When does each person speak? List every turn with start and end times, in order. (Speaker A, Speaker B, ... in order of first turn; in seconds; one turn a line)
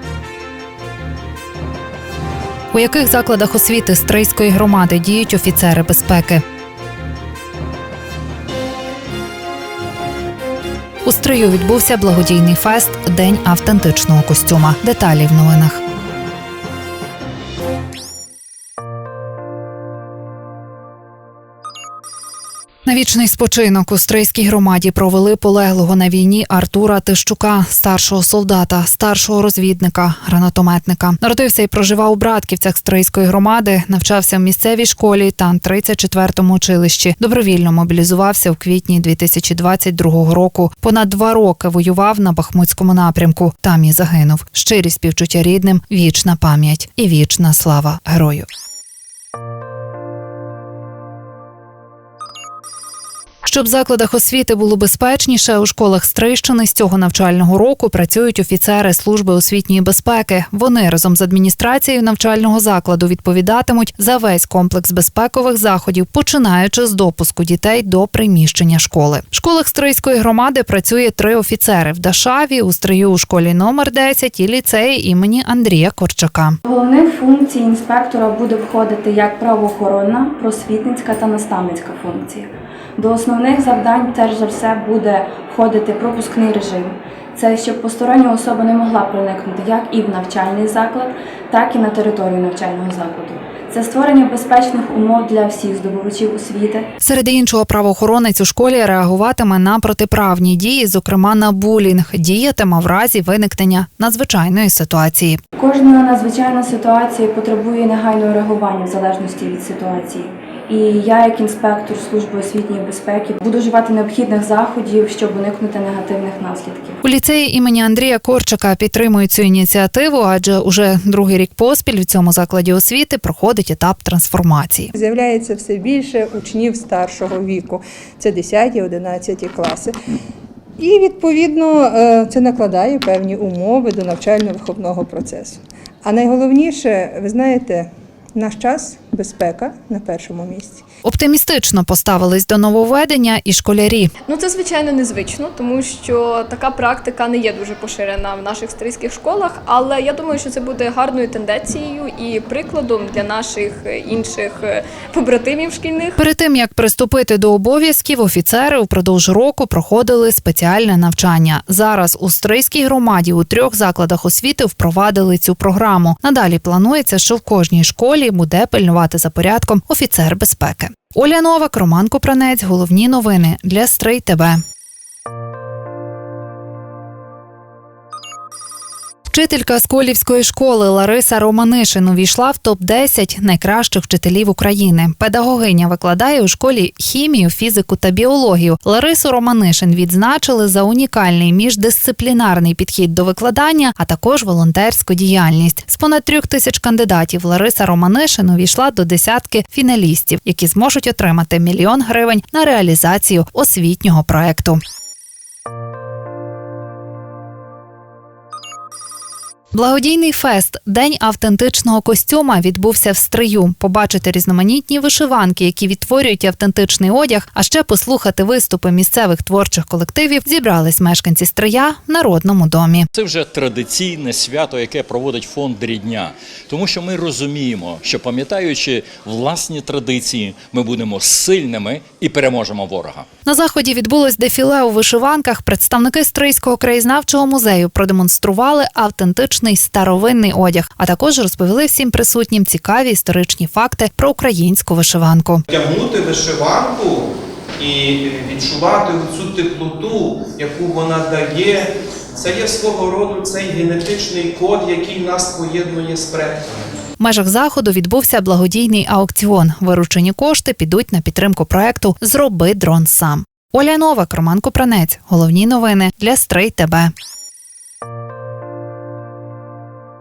Speaker A: 2.7-6.4
Speaker A: 11.1-15.8
Speaker A: 22.9-48.5
Speaker A: 53.5-76.6
Speaker B: 76.7-96.9
Speaker A: 97.0-105.4
Speaker B: 105.6-117.0
Speaker A: 117.0-124.9
Speaker C: 124.9-129.9
Speaker C: 130.8-140.8
Speaker A: 141.1-144.1
Speaker D: 144.3-156.2
Speaker A: 156.2-174.6
Speaker A: 179.3-204.8
Speaker A: 209.7-223.1
Speaker E: 223.2-233.3
Speaker A: 233.5-245.6
Speaker F: 245.7-256.9
Speaker A: 257.2-267.1